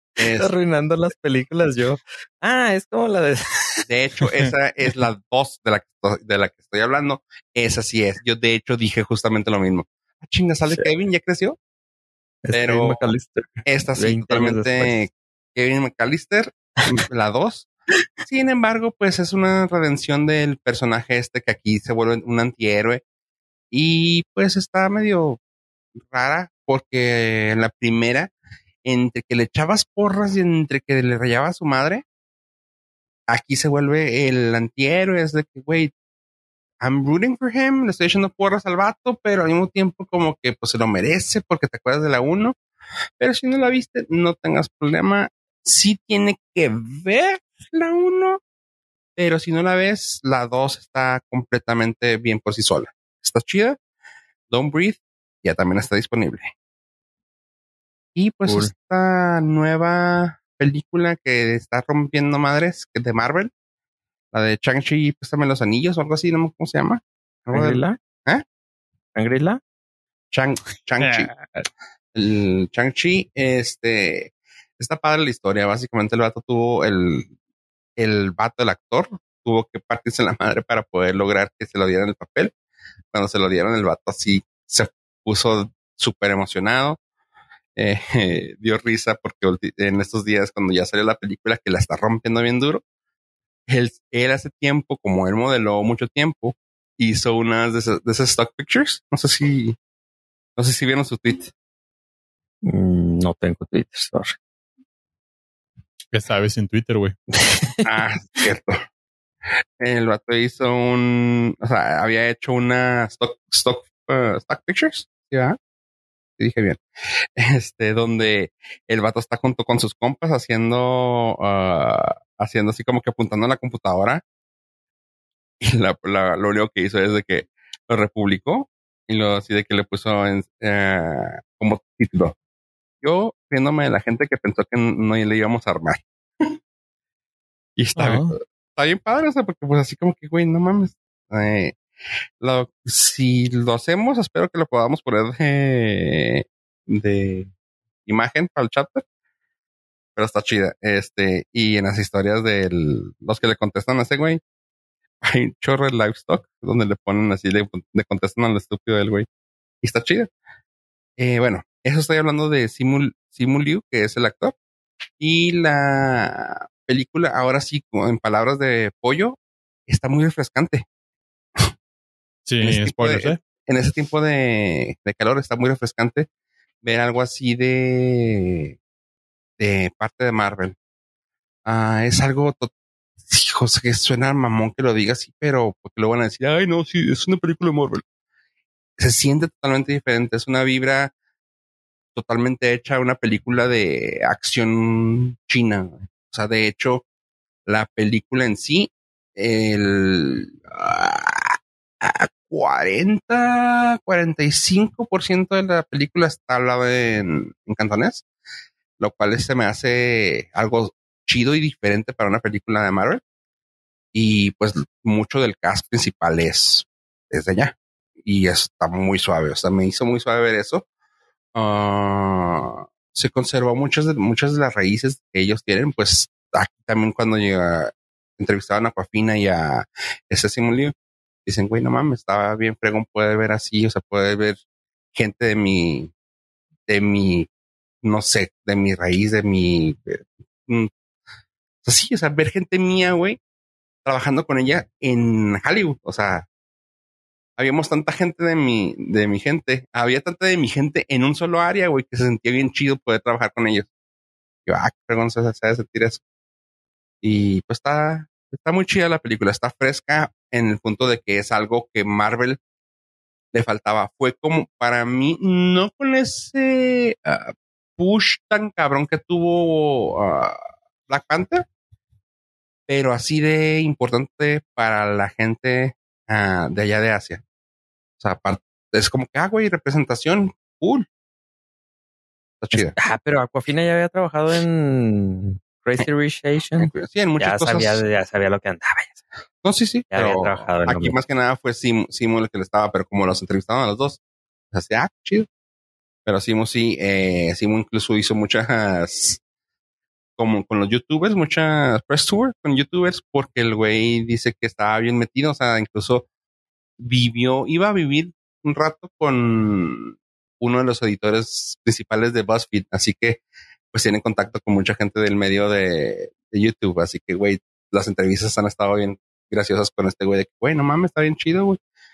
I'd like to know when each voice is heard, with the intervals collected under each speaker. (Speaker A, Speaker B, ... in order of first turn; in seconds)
Speaker A: 0.2-0.5, 3.8-11.6, 12.5-13.1, 13.7-17.7, 18.2-23.0, 23.7-25.4, 26.0-28.3, 28.8-32.0, 33.3-35.9, 36.8-42.5, 43.2-48.4, 49.1-53.8, 54.5-56.5, 58.1-63.5, 64.3-68.4, 70.3-77.3, 78.0-82.5, 83.1-87.0, 87.8-92.8, 93.7-99.8, 100.5-101.5, 107.8-108.8, 109.8-115.6, 116.4-124.2, 125.6-132.3, 133.0-136.5, 137.8-141.8, 142.4-147.5, 148.1-149.0, 150.2-154.4, 155.2-159.3, 159.8-160.3, 161.2-164.5, 165.2-170.8, 172.6-176.3, 176.8-178.8, 179.6-180.8, 181.6-182.7, 183.2-188.0, 189.0-191.1, 192.1-197.1, 197.7-208.2, 209.0-213.2, 214.1-220.8, 221.5-230.9, 231.4-234.6, 235.1-236.1, 236.9-237.5, 238.0-240.9, 241.8-243.4, 244.0-246.5, 247.6-253.9, 254.7-256.2, 257.2-262.6, 263.5-271.7, 272.9-277.4, 278.2-281.1, 282.6-282.9, 286.8-288.0, 289.6-294.2, 294.7-295.5, 296.2-299.4, 300.4-306.2, 307.0-313.4, 313.9-321.8
Speaker B: 0.3-3.8, 12.4-14.9, 58.5-58.7, 67.5-68.0, 69.2-69.6, 102.6-104.3, 107.3-107.8, 282.7-289.2, 290.1-291.1
Speaker C: 106.1-107.1, 137.9-138.3, 172.4-173.4